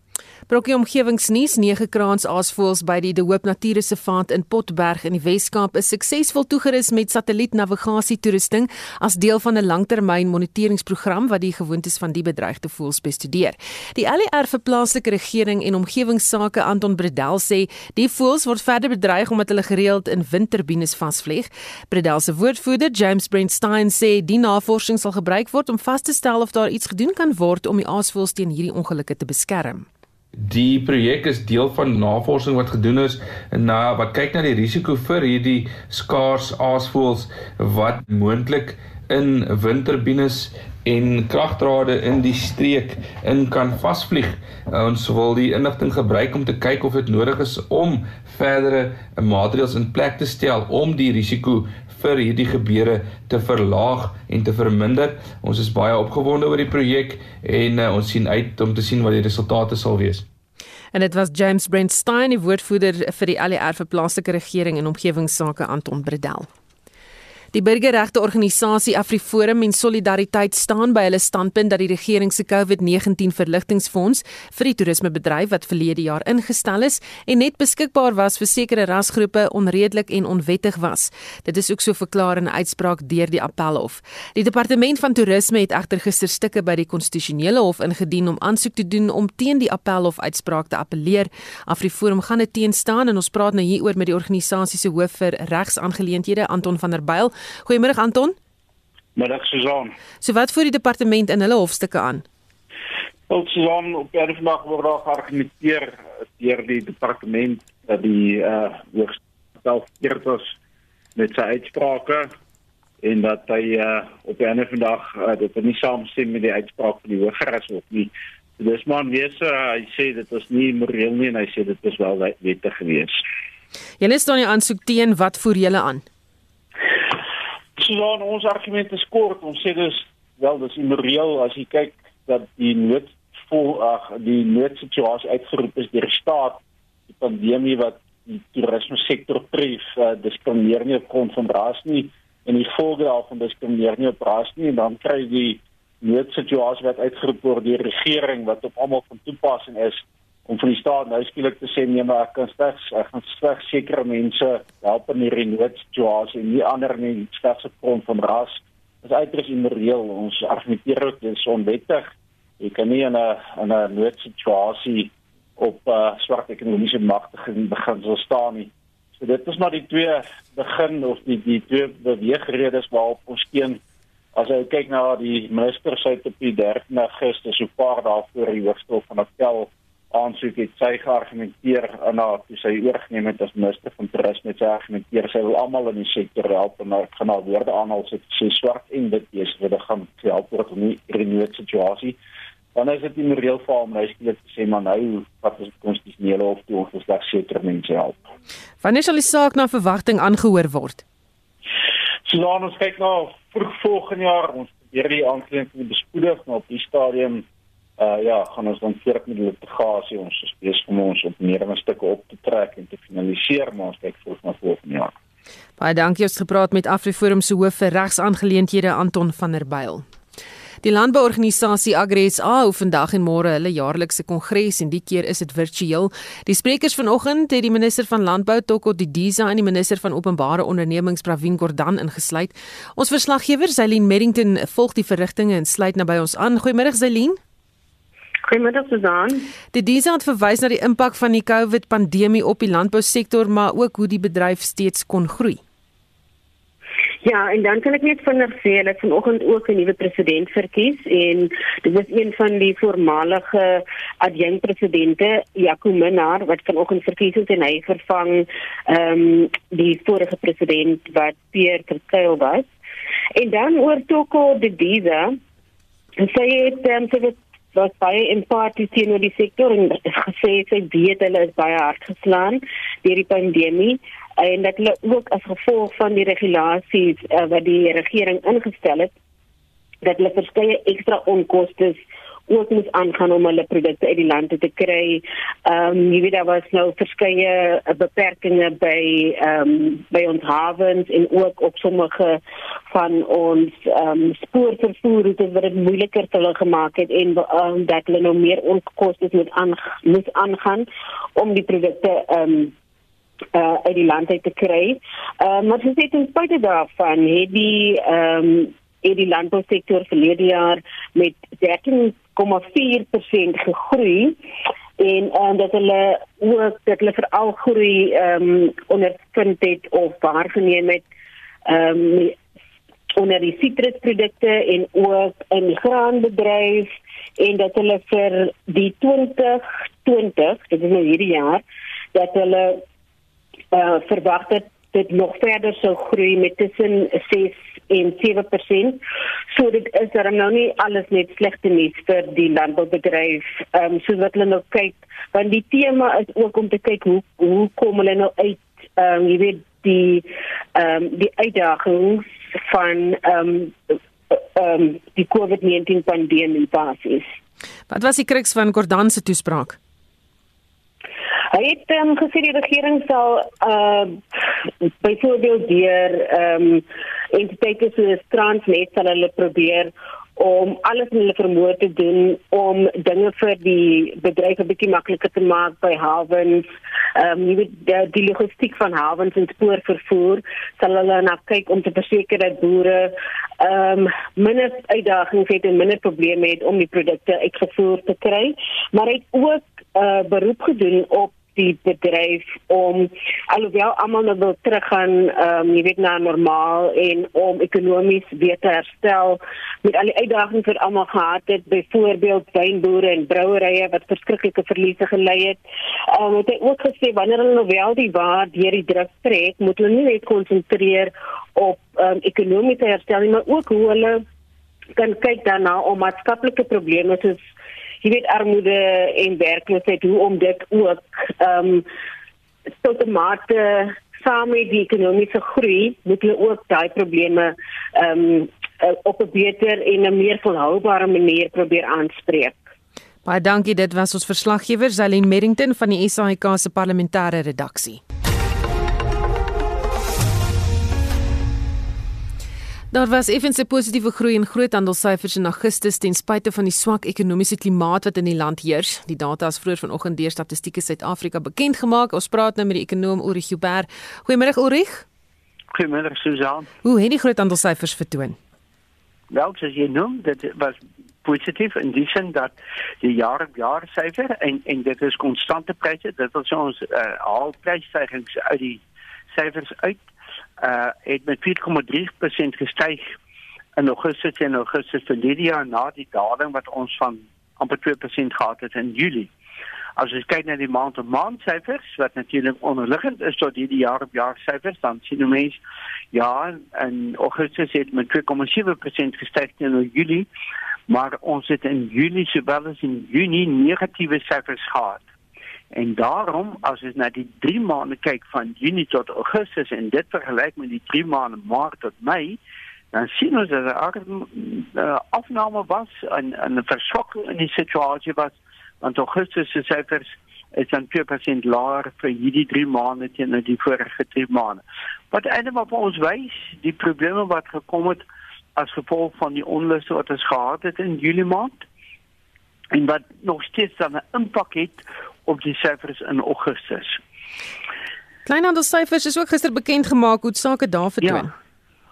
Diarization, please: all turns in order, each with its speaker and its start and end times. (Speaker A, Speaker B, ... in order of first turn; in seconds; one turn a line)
Speaker A: 0.5-29.9
Speaker B: 30.4-60.3
Speaker A: 60.9-66.5
Speaker A: 67.5-98.3
Speaker C: 99.2-99.9
Speaker A: 100.2-102.2
Speaker C: 103.3-110.6
Speaker C: 111.2-112.3
Speaker C: 113.0-123.2
Speaker A: 124.0-126.0
Speaker C: 127.8-173.8
Speaker C: 174.3-192.2
Speaker C: 192.7-198.2
Speaker A: 198.8-201.0
Speaker C: 202.2-207.4
Speaker C: 208.0-215.1
Speaker A: 215.8-220.0
Speaker A: 220.8-237.4
Speaker D: 238.5-239.5
Speaker A: 239.7-245.6
Speaker D: 247.2-262.7
Speaker D: 263.4-265.4
Speaker D: 266.2-279.1
Speaker D: 280.0-302.7
Speaker D: 303.5-314.4
Speaker D: 315.0-321.0
Speaker D: 321.7-322.4
Speaker D: 323.1-331.6
Speaker D: 332.1-332.8
Speaker D: 333.7-357.4
Speaker A: 357.9-359.8
Speaker D: 361.5-364.2
Speaker D: 365.0-405.6
Speaker D: 406.1-414.2
Speaker D: 415.0-417.4
Speaker D: 418.0-421.8
Speaker D: 422.8-432.6
Speaker A: 433.2-438.0
Speaker A: 442.9-455.0
Speaker E: 455.7-456.7
Speaker A: 456.8-458.4
Speaker E: 459.3-470.1
Speaker E: 470.6-473.0
Speaker E: 473.8-479.3
Speaker E: 480.0-490.3
Speaker E: 490.9-495.0
Speaker E: 495.7-502.4
Speaker E: 502.9-518.0
Speaker E: 518.5-521.6
Speaker E: 522.7-527.0
Speaker A: 528.2-531.3
Speaker E: 531.0-531.3